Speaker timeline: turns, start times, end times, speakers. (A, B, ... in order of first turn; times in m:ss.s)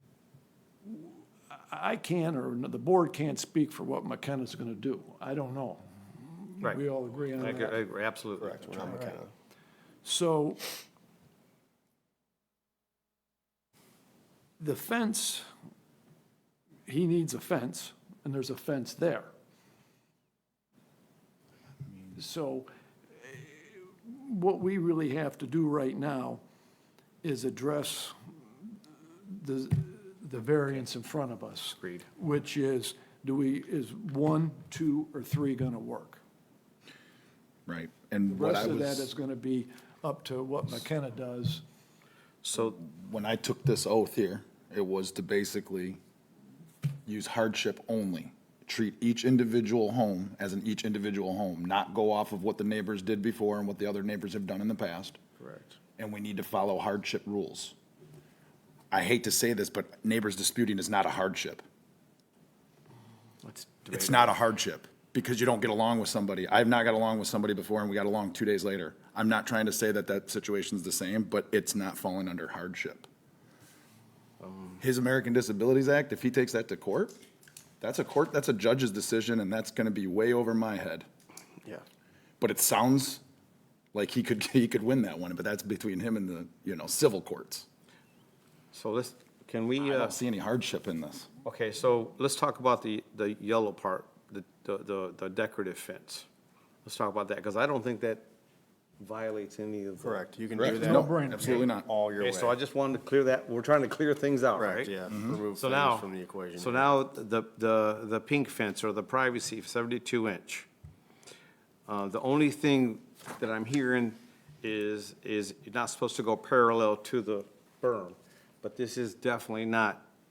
0:00.8-0:07.8 A
0:07.4-0:09.1 B
0:08.4-0:09.3 C
0:08.8-0:09.1 A
0:10.0-0:10.7 A
0:14.6-0:15.4 A
0:16.8-0:19.3 A
0:22.1-0:26.4 A
0:27.2-0:28.1 A
0:29.3-0:36.2 A
0:37.7-0:39.1 D
0:38.3-0:41.6 A
0:42.5-0:46.0 D
0:47.0-0:55.2 D
0:55.4-0:55.7 B
0:56.0-0:57.7 D
0:58.9-1:01.6 D
1:03.4-1:04.3 B
1:03.9-1:13.1 D
1:14.8-1:17.2 D
1:17.8-1:21.0 D
1:22.4-1:23.2 D
1:23.9-1:27.6 D
1:28.7-1:30.2 B
1:29.8-1:31.3 D
1:31.4-1:36.2 B
1:36.8-1:38.2 B
1:39.0-1:40.2 B
1:40.0-1:42.5 C
1:40.6-1:41.9 D
1:40.8-1:41.7 A
1:42.2-1:44.9 B
1:44.6-1:46.9 C
1:45.1-1:45.4 D
1:45.5-1:50.7 B
1:51.9-2:00.0 B